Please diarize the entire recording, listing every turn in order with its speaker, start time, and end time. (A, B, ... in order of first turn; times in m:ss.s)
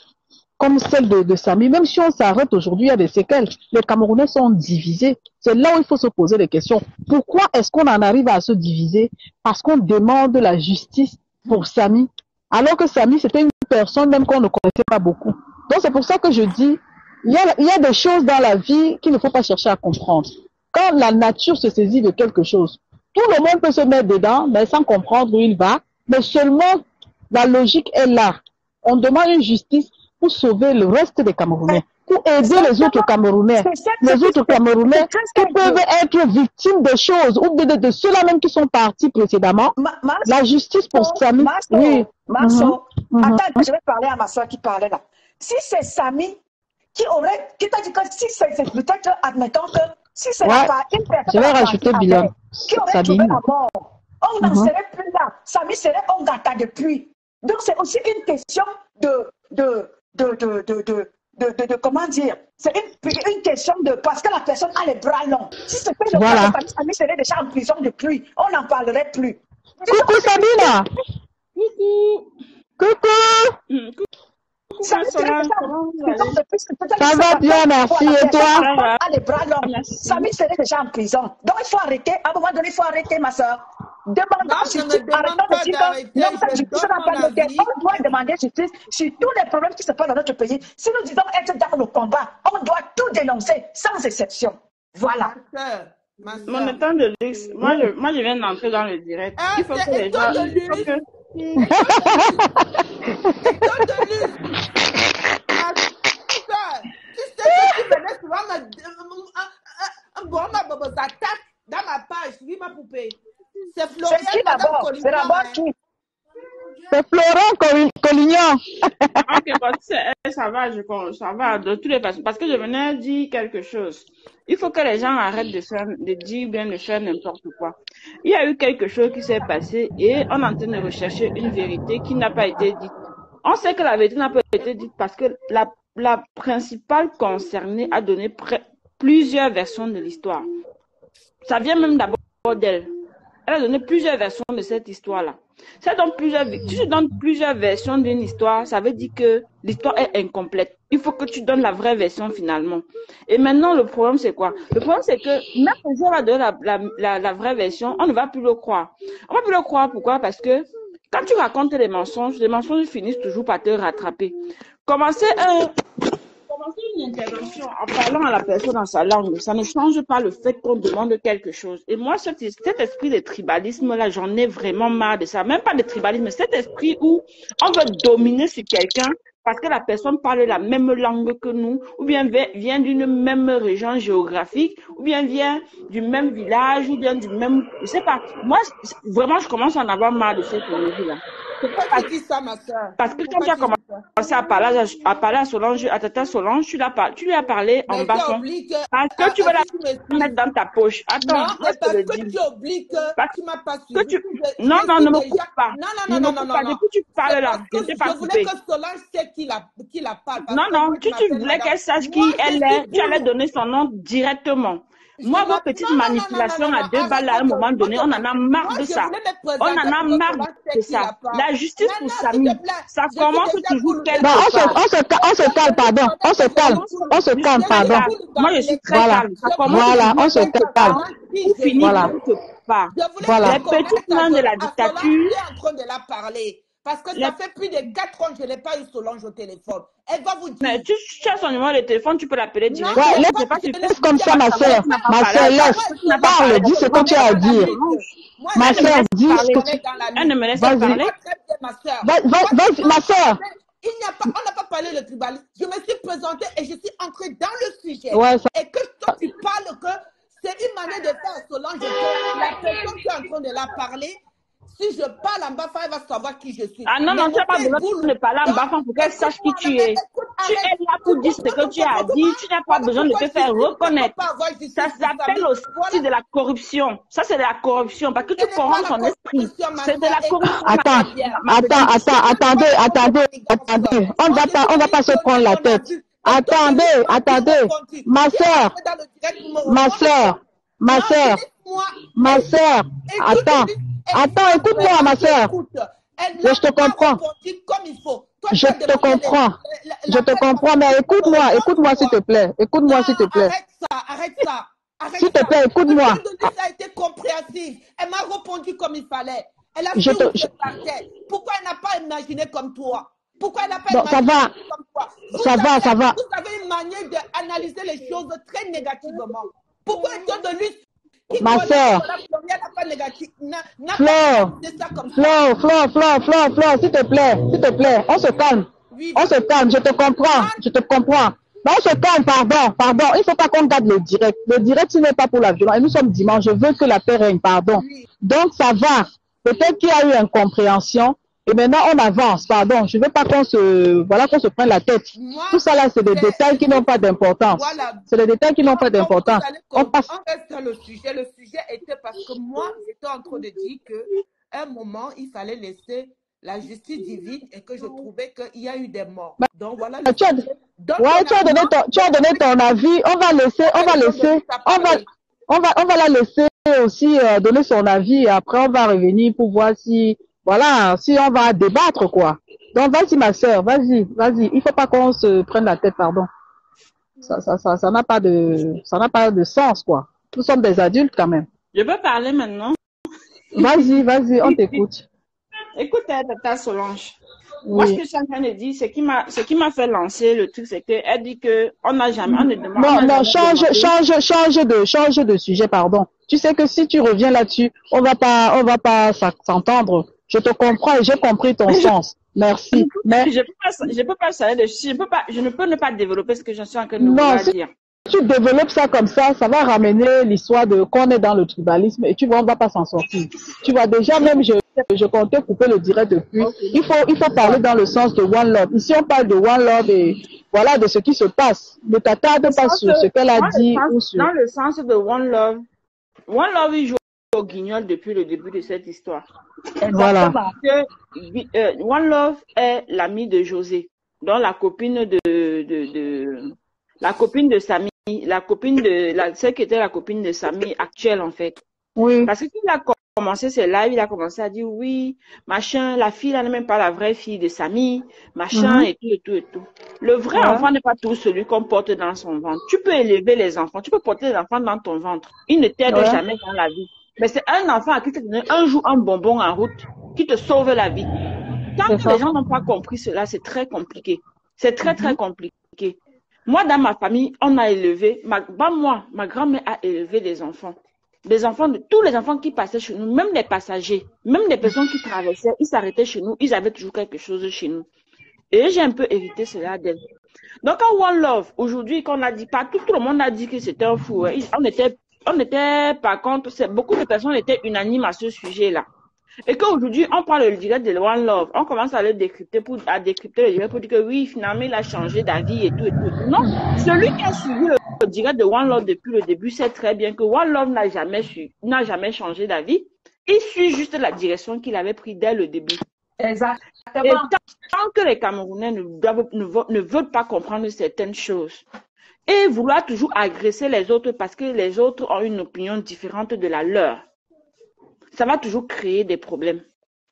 0:00.6-0:39.7 A
0:32.4-0:35.8 B
0:39.8-0:40.4 B
0:40.2-0:43.6 A
0:40.9-0:46.4 B
0:46.9-1:10.7 B
0:50.4-0:50.7 A
0:51.3-0:53.4 A
0:54.4-0:54.7 A
1:06.1-1:06.6 A
1:09.9-1:10.9 A
1:11.5-1:12.3 C
1:12.8-1:13.6 A
1:13.7-1:14.1 C
1:14.7-1:16.4 C
1:14.8-1:35.3 B
1:17.0-1:18.6 A
1:18.4-1:19.0 C
1:19.6-1:20.3 C
1:24.4-1:27.7 D
1:35.1-1:36.8 D
1:36.4-1:41.0 C
1:37.6-1:37.9 A
1:39.4-1:42.5 D
1:41.6-1:43.7 A
1:43.4-1:44.4 D
1:45.5-1:53.2 D
1:53.7-1:55.6 D
1:54.0-1:55.7 B
1:56.9-1:59.4 A
1:59.2-2:20.4 C
2:21.4-2:22.9 C
2:23.5-2:44.3 C
2:44.8-2:45.7 C
2:46.5-3:11.2 C
3:11.6-3:14.2 D
3:13.0-3:22.3 C
3:17.9-3:20.4 D
3:21.2-3:33.3 D
3:23.9-3:28.5 C
3:30.5-3:44.8 C
3:35.2-3:52.1 D
3:44.2-3:48.1 A
3:46.6-3:47.1 C
3:47.6-3:55.4 C
3:48.9-3:51.0 A
3:51.8-3:52.1 A
3:52.9-4:00.8 D
3:53.2-3:53.6 A
4:00.6-4:11.1 C
4:02.7-4:24.1 D
4:02.9-4:07.7 A
4:08.5-4:09.8 A
4:10.6-4:11.0 A
4:12.0-4:13.4 A
4:18.1-4:18.5 A
4:24.7-4:36.0 D
4:26.8-4:34.1 C
4:34.7-4:42.3 C
4:38.4-4:50.4 D
4:40.6-4:48.7 A
4:49.6-4:51.4 A
4:50.9-5:02.2 D
4:52.2-4:55.5 A
4:56.4-4:57.2 A
4:58.5-4:59.5 A
5:00.1-5:03.5 A
5:02.8-5:20.8 D
5:05.2-5:06.2 A
5:09.9-5:10.5 A
5:13.9-5:14.5 A
5:15.4-5:16.2 A
5:21.3-5:25.4 D
5:21.4-5:22.0 A
5:24.0-5:24.5 A
5:25.2-5:50.1 A
5:28.9-5:30.6 D
5:37.8-5:38.0 D
5:45.2-5:48.0 D
5:48.6-6:02.5 D
6:00.0-6:00.5 A
6:01.0-6:16.3 A
6:03.6-6:05.1 D
6:17.3-6:21.5 A
6:21.7-6:22.8 C
6:23.5-6:24.8 C
6:23.5-6:25.1 A
6:25.8-6:27.2 C
6:27.7-6:28.0 A
6:27.7-6:33.9 C
6:32.2-6:43.3 A
6:42.7-6:47.7 C
6:47.0-6:47.5 A
6:48.1-7:04.3 A
6:56.4-6:56.8 C
7:02.4-7:05.6 C
7:06.3-7:09.2 C
7:09.8-7:10.5 B
7:09.9-7:10.4 A
7:10.6-7:21.6 C
7:22.0-7:22.3 A
7:22.2-7:41.1 C
7:28.5-7:28.9 A
7:30.3-7:30.7 A
7:35.9-7:36.2 A
7:41.8-7:57.9 C
7:41.9-7:42.2 A
7:44.8-7:45.2 A
7:58.5-8:00.0 C
8:00.6-8:08.9 C
8:09.4-8:25.8 C
8:26.2-8:27.3 B
8:27.0-8:31.6 C
8:32.3-8:37.0 C
8:38.1-8:39.6 C